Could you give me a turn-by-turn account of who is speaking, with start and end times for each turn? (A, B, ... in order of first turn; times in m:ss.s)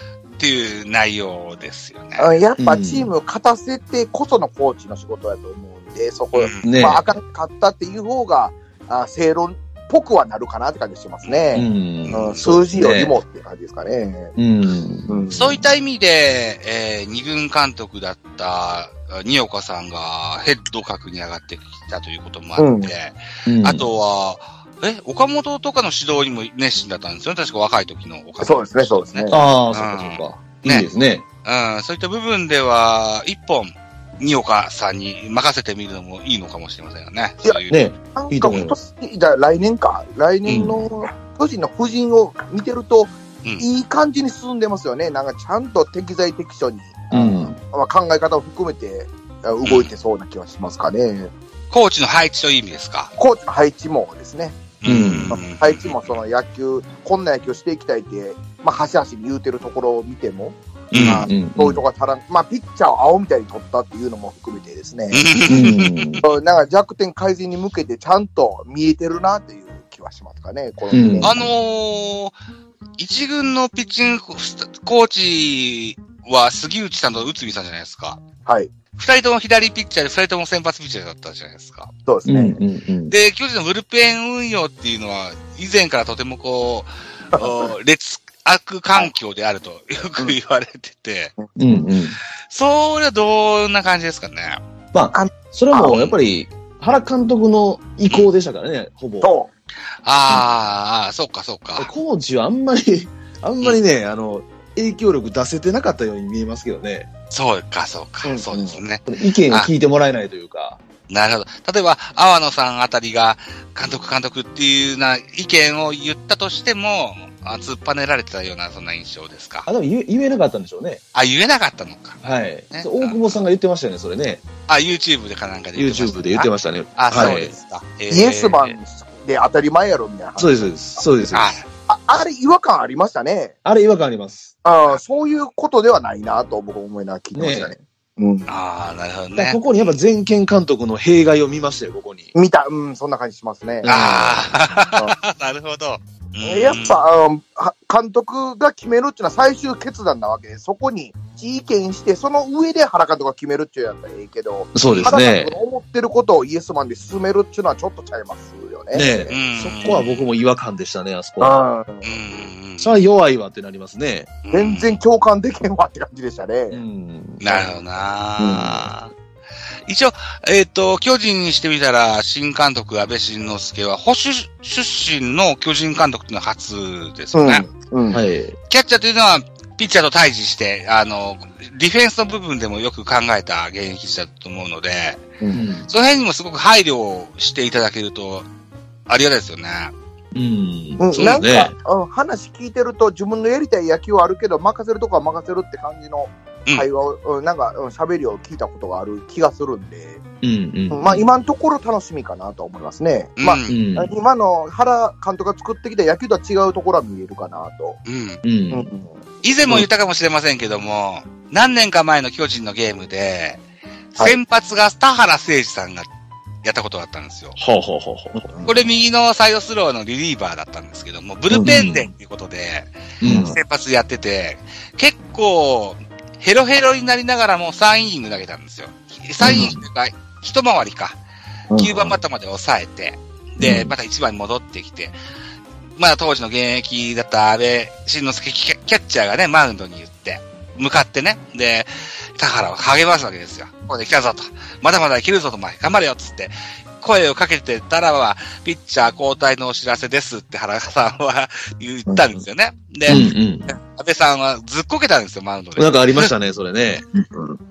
0:00.4-0:02.3 A
0:02.2-0:14.4 B
0:02.6-0:03.1 C
0:06.3-0:06.8 A
0:06.6-0:07.1 C
0:11.2-0:12.5 A
0:11.5-0:13.2 C
0:14.4-0:15.2 C
0:15.1-0:15.6 B
0:15.3-0:30.9 A
0:22.6-0:22.9 B
0:23.4-0:23.9 C
0:28.4-0:29.4 B
0:29.3-0:31.2 C
0:31.4-0:37.8 A
0:37.4-0:51.3 B
0:37.7-0:38.8 C
0:40.4-0:40.7 A
0:40.5-0:40.8 C
0:47.1-0:47.6 C
0:49.6-0:49.9 A
0:51.7-0:53.1 A
0:53.2-0:54.7 B
0:54.8-0:56.1 A
0:54.8-0:55.3 C
0:55.3-1:05.3 B
1:00.9-1:01.8 C
1:00.9-1:01.3 A
1:05.1-1:06.2 A
1:05.5-1:06.2 C
1:06.2-1:11.4 B
1:10.9-1:11.4 C
1:11.2-1:12.4 A
1:13.0-1:18.2 A
1:18.4-1:18.7 B
1:18.9-1:21.9 A
1:22.1-1:22.6 B
1:22.2-1:23.1 C
1:23.1-1:31.3 A
1:27.3-1:27.6 B
1:31.6-1:32.2 C
1:32.4-1:34.6 A
1:34.9-1:39.3 C
1:35.1-1:36.0 B
1:35.9-1:36.2 A
1:39.2-1:39.5 B
1:40.0-1:41.9 A
1:41.8-1:47.1 C
1:47.3-1:49.7 A
1:48.2-1:48.8 B
1:49.1-1:50.8 C
1:51.1-1:59.7 A
1:59.7-2:01.0 C
2:01.1-2:02.2 A
2:02.2-2:04.4 C
2:02.7-2:03.3 A
2:04.7-2:08.8 A
2:05.7-2:07.5 C
2:08.1-2:11.0 B
2:10.4-2:11.5 C
2:11.3-2:11.7 A
2:11.9-2:13.5 B
2:13.6-2:14.5 C
2:14.6-2:18.5 B
2:17.3-2:17.8 C
2:18.5-2:20.0 A
2:19.3-2:22.3 C
2:22.3-2:23.9 B
2:23.8-2:24.5 C
2:23.9-2:27.0 A
2:26.4-2:39.4 B
2:34.7-2:35.6 C
2:34.8-2:35.2 A
2:38.9-2:41.6 C
2:39.3-2:40.3 A
2:41.4-2:42.2 B
2:42.0-2:43.0 A
2:42.8-2:44.3 C
2:44.4-2:45.0 A
2:44.5-2:46.8 B
2:46.7-2:47.5 C
2:47.4-2:49.1 A
2:48.4-2:48.8 B
2:48.5-2:48.9 C
2:49.8-2:57.7 A
2:57.3-2:58.2 B
2:58.1-2:58.6 C
2:58.7-3:08.5 A
3:05.5-3:05.9 C
3:09.1-3:09.9 A
3:10.3-3:11.7 C
3:11.0-3:20.2 B
3:11.2-3:11.4 A
3:20.4-3:21.3 C
3:20.9-3:28.0 B
3:23.4-3:23.8 A
3:23.7-3:24.1 C
3:28.0-3:28.4 A
3:28.4-3:28.9 C
3:28.7-3:29.2 B
3:29.4-3:33.6 A
3:34.1-3:36.1 A
3:36.6-3:37.6 A
3:37.6-3:38.5 C
3:38.3-3:38.8 B
3:38.6-3:51.2 A
3:41.5-3:41.8 B
3:41.5-3:42.1 C
3:43.2-3:43.6 C
3:43.2-3:43.5 B
3:49.4-3:49.8 C
3:51.7-3:52.2 B
3:51.8-3:55.2 A
3:53.6-3:53.9 C
3:56.0-4:16.3 A
4:12.1-4:12.4 B
4:13.1-4:13.8 C
4:15.8-4:17.0 C
4:17.1-4:17.6 B